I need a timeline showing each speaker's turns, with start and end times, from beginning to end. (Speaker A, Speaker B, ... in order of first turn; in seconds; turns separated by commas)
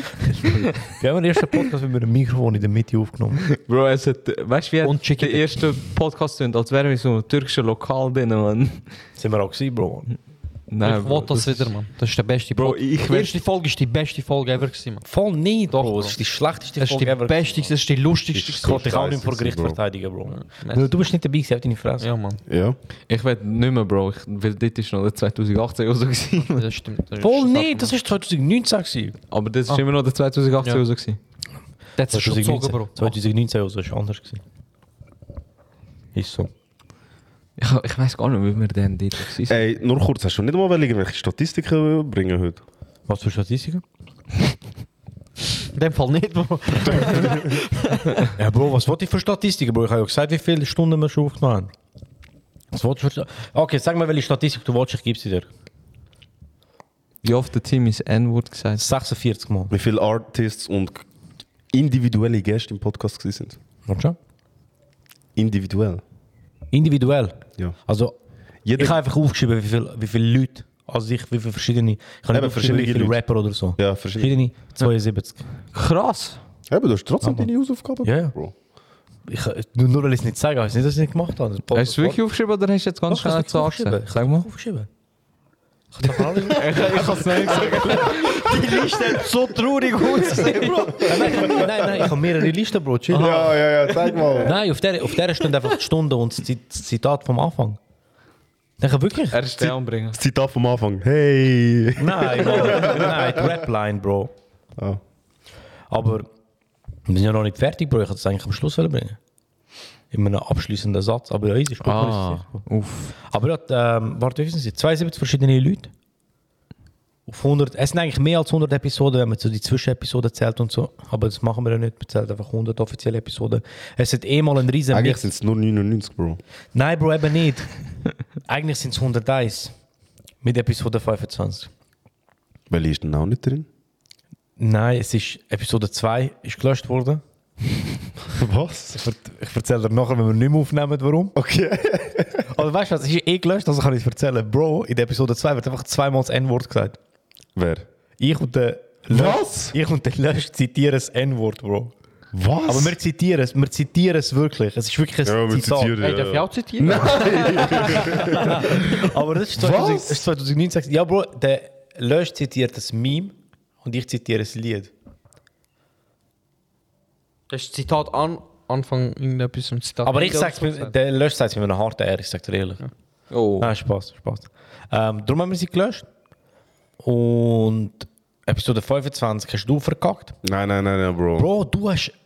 Speaker A: 0.3-3.4, Speaker B: 3.5-8.8, Speaker C: 4.8-5.5, Speaker A: 9.2-10.1, Speaker B: 10.7-11.7, Speaker C: 10.8-15.1, Speaker B: 12.5-13.4, Speaker A: 15.0-17.7, Speaker C: 15.7-16.2, Speaker C: 16.8-18.9, Speaker D: 18.3-19.8, Speaker A: 18.6-22.1, Speaker C: 20.3-20.9, Speaker C: 22.0-22.4, Speaker D: 22.5-22.8, Speaker B: 23.1-26.6, Speaker C: 26.4-27.9, Speaker A: 27.2-29.2, Speaker B: 29.3-31.2, Speaker C: 32.0-33.1, Speaker A: 32.1-34.4, Speaker A: 36.1-36.5, Speaker B: 37.6-39.6, Speaker D: 39.5-42.6, Speaker A: 43.1-43.8, Speaker C: 45.7-48.2, Speaker A: 48.4-51.7, Speaker A: 52.7-55.5, Speaker B: 57.2-58.8, Speaker A: 58.8-59.7, Speaker D: 59.7-61.0, Speaker D: 61.7-63.6, Speaker A: 63.9-64.2, Speaker D: 65.3-66.0, Speaker A: 66.7-68.1, Speaker D: 68.6-69.0, Speaker A: 68.8-75.4, Speaker D: 72.3-73.2, Speaker D: 73.8-74.4, Speaker B: 75.7-76.4, Speaker D: 76.7-78.5, Speaker A: 77.2-77.5, Speaker A: 78.0-78.3, Speaker A: 79.3-82.2, Speaker B: 81.7-84.5, Speaker A: 83.1-84.9, Speaker C: 85.9-92.0, Speaker A: 86.0-89.0, Speaker B: 86.5-91.1, Speaker A: 90.9-93.5, Speaker D: 93.1-94.6, Speaker C: 93.2-94.2, Speaker A: 94.4-97.8, Speaker A: 98.8-99.4, Speaker B: 99.3-100.2, Speaker D: 99.6-103.5, Speaker A: 102.0-104.3, Speaker A: 105.9-106.3, Speaker A: 107.1-109.2, Speaker A: 110.1-112.6, Speaker B: 111.8-113.1, Speaker A: 113.2-115.9, Speaker A: 117.3-125.2, Speaker D: 124.9-126.4, Speaker A: 126.7-127.7, Speaker A: 128.4-129.7, Speaker A: 130.4-131.7, Speaker D: 132.7-133.7, Speaker A: 134.6-137.2, Speaker D: 138.3-139.0, Speaker A: 138.9-141.3, Speaker D: 141.3-142.5, Speaker A: 142.5-147.0, Speaker D: 147.6-147.8, Speaker A: 148.2-151.9, Speaker D: 149.1-149.8, Speaker D: 152.3-153.0, Speaker A: 152.7-156.0, Speaker D: 155.2-158.9, Speaker C: 156.0-158.4, Speaker A: 158.1-164.9, Speaker D: 159.6-160.2, Speaker C: 167.5-170.9, Speaker A: 170.0-172.8, Speaker B: 173.3-173.7, Speaker A: 173.6-176.1, Speaker A: 177.0-180.3, Speaker D: 180.4-181.5, Speaker A: 181.4-182.1